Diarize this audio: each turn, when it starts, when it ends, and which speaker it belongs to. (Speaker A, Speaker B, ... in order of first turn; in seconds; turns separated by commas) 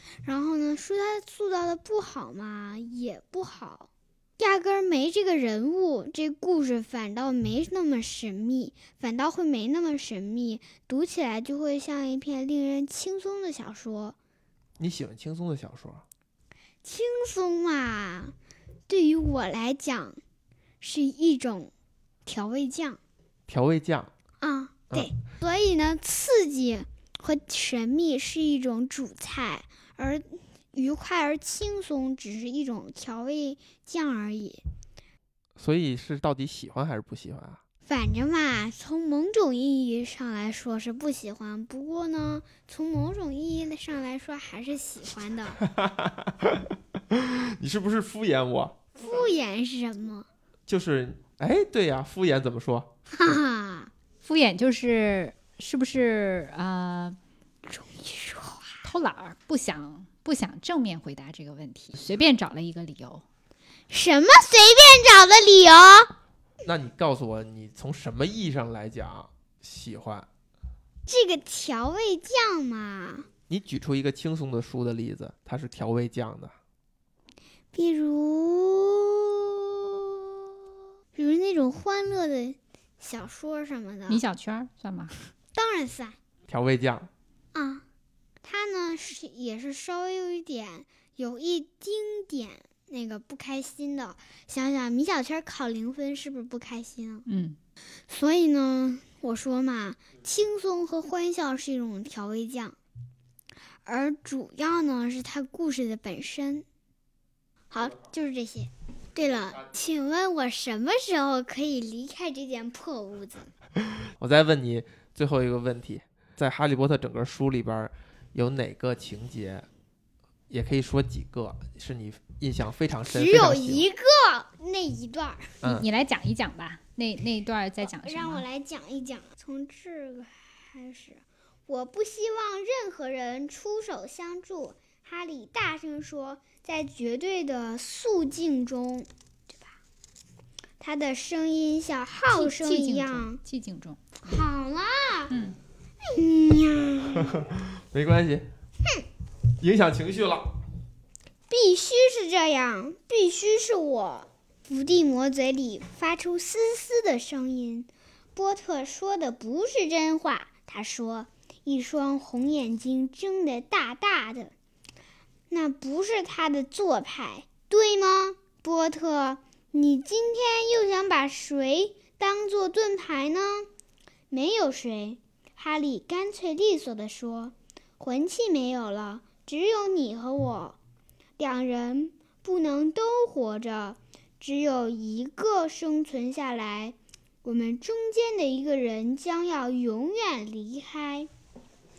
Speaker A: 0.2-14.2, Speaker B: 14.8-16.1, Speaker A: 16.8-18.4, Speaker A: 18.9-20.2, Speaker A: 20.8-21.7, Speaker A: 22.3-23.0, Speaker B: 23.5-24.1, Speaker A: 24.4-34.6, Speaker B: 35.6-37.6, Speaker A: 37.9-45.6, Speaker B: 45.6-48.8, Speaker A: 49.0-50.3, Speaker B: 50.7-52.9, Speaker A: 53.1-53.9, Speaker C: 54.2-57.2, Speaker A: 57.7-58.8, Speaker C: 58.8-63.2, Speaker A: 63.9-66.1, Speaker B: 66.6-70.3, Speaker A: 71.1-73.3, Speaker B: 73.5-76.5, Speaker A: 77.7-80.0, Speaker A: 81.2-84.2, Speaker C: 84.1-85.2, Speaker A: 85.5-86.2, Speaker B: 86.5-87.1, Speaker A: 87.5-87.8, Speaker A: 88.4-97.3, Speaker C: 97.3-97.6, Speaker A: 98.1-102.8, Speaker A: 103.9-106.7, Speaker A: 107.7-113.5, Speaker B: 114.2-119.7, Speaker B: 120.5-123.8, Speaker A: 123.1-125.6, Speaker B: 125.6-125.9, Speaker C: 125.7-128.4, Speaker A: 127.8-139.6, Speaker A: 140.8-143.4, Speaker C: 142.3-144.3, Speaker A: 144.2-145.4, Speaker C: 145.3-145.6, Speaker A: 146.1-147.4, Speaker B: 147.3-148.5, Speaker B: 149.6-150.6, Speaker A: 151.5-164.5, Speaker A: 165.5-173.7, Speaker A: 174.3-180.8, Speaker A: 181.4-191.3